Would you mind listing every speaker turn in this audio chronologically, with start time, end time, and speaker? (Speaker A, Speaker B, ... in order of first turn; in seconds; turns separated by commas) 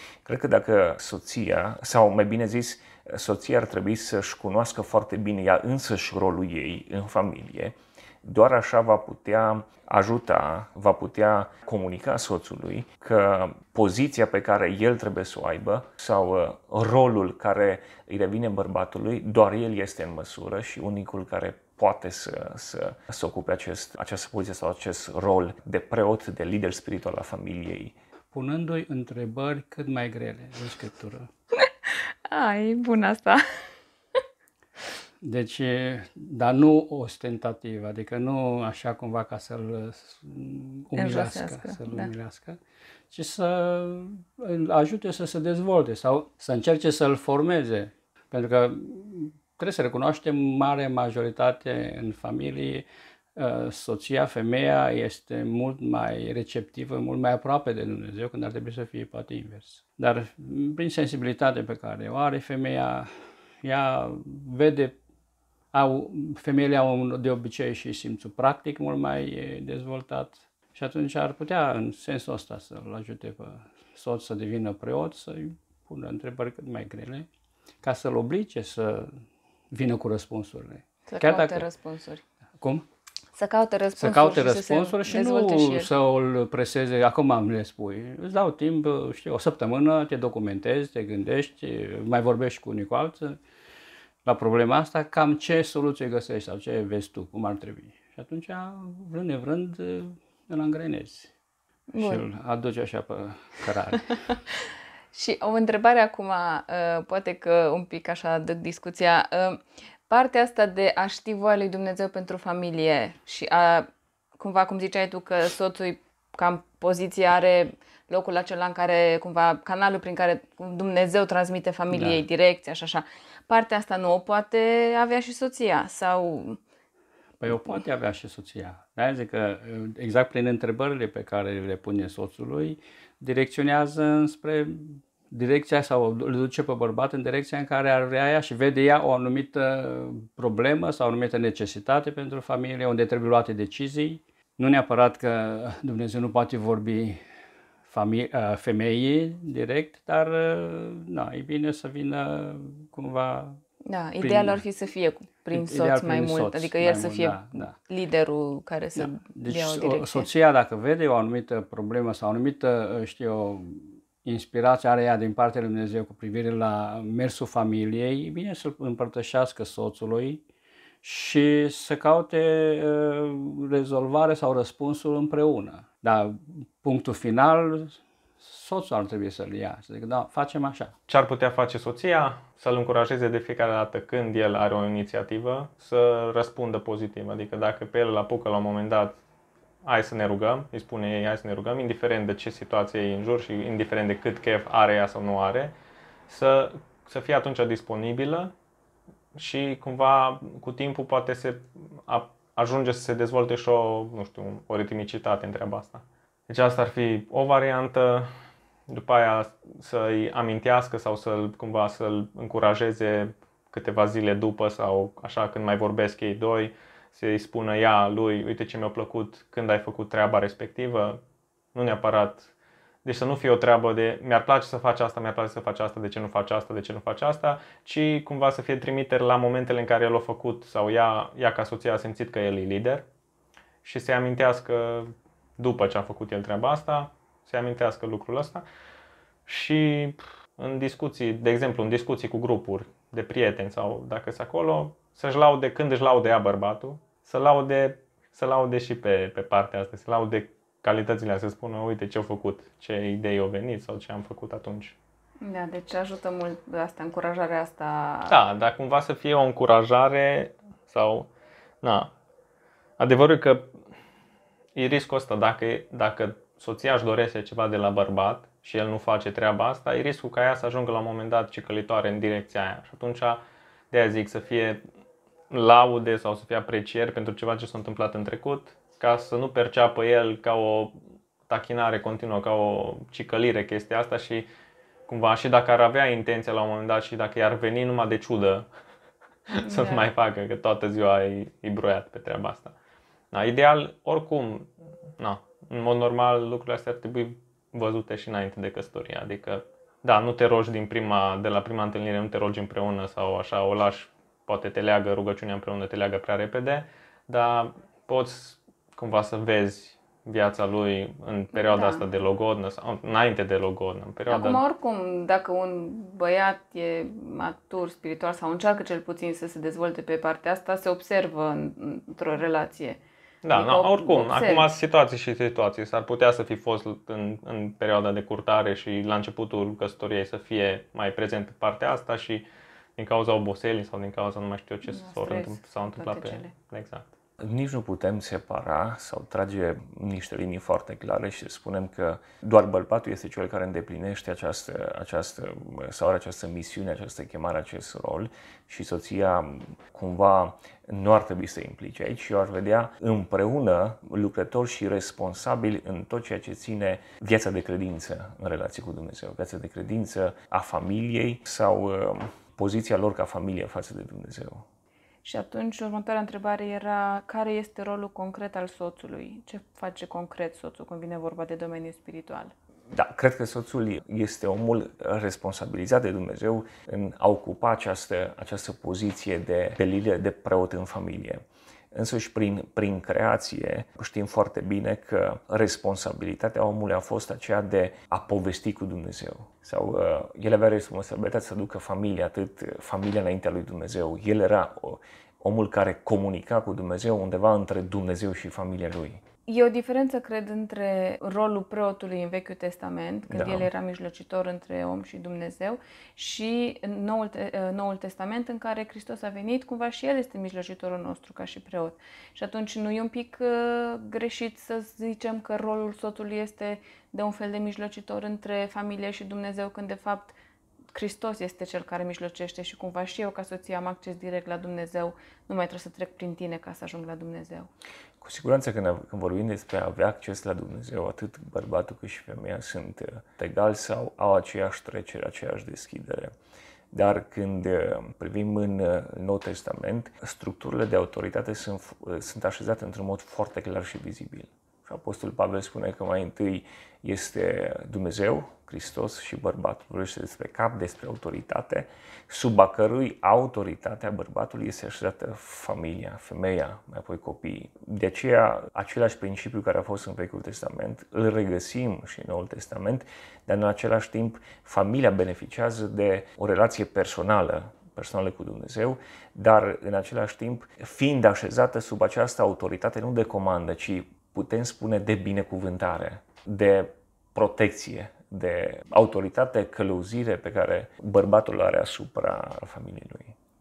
Speaker A: 0.2-27.9, Speaker B: 28.3-31.3, Speaker C: 32.2-33.4, Speaker B: 35.2-42.6, Speaker C: 40.9-42.1, Speaker B: 43.1-63.1, Speaker B: 63.6-65.0, Speaker B: 65.7-77.3, Speaker B: 77.8-79.2, Speaker B: 79.7-81.7, Speaker C: 81.1-82.2, Speaker B: 82.6-82.8, Speaker C: 83.3-85.9, Speaker B: 84.0-93.4, Speaker B: 94.2-101.3, Speaker C: 101.9-102.2, Speaker B: 102.0-104.2, Speaker C: 105.1-126.6, Speaker B: 121.9-122.2, Speaker B: 127.4-147.2, Speaker B: 147.9-153.6, Speaker C: 153.8-160.3, Speaker B: 154.2-154.6, Speaker B: 155.5-157.7, Speaker B: 158.9-170.4, Speaker B: 171.0-180.9, Speaker D: 181.1-189.2, Speaker D: 189.8-195.7, Speaker D: 196.3-198.5, Speaker D: 199.3-208.3, Speaker D: 208.9-221.2, Speaker D: 221.7-222.5, Speaker D: 223.0-233.0, Speaker D: 233.8-238.6, Speaker D: 239.4-254.9, Speaker C: 255.4-258.4, Speaker D: 258.3-261.3, Speaker D: 261.8-262.1, Speaker D: 263.0-263.8, Speaker D: 264.7-273.4, Speaker D: 273.9-274.8, Speaker D: 275.5-280.9, Speaker D: 281.5-284.5, Speaker D: 285.1-288.7, Speaker D: 289.5-292.7, Speaker C: 289.6-290.1, Speaker D: 293.3-314.6, Speaker C: 311.5-312.0, Speaker C: 314.3-323.0, Speaker D: 323.4-332.4, Speaker C: 323.5-324.7, Speaker D: 333.0-337.1, Speaker C: 334.9-336.5, Speaker A: 337.4-364.6, Speaker C: 365.2-372.5, Speaker A: 372.9-399.2, Speaker C: 399.5-420.4, Speaker A: 403.3-403.7, Speaker C: 420.9-427.7, Speaker A: 428.2-436.3, Speaker A: 436.9-483.3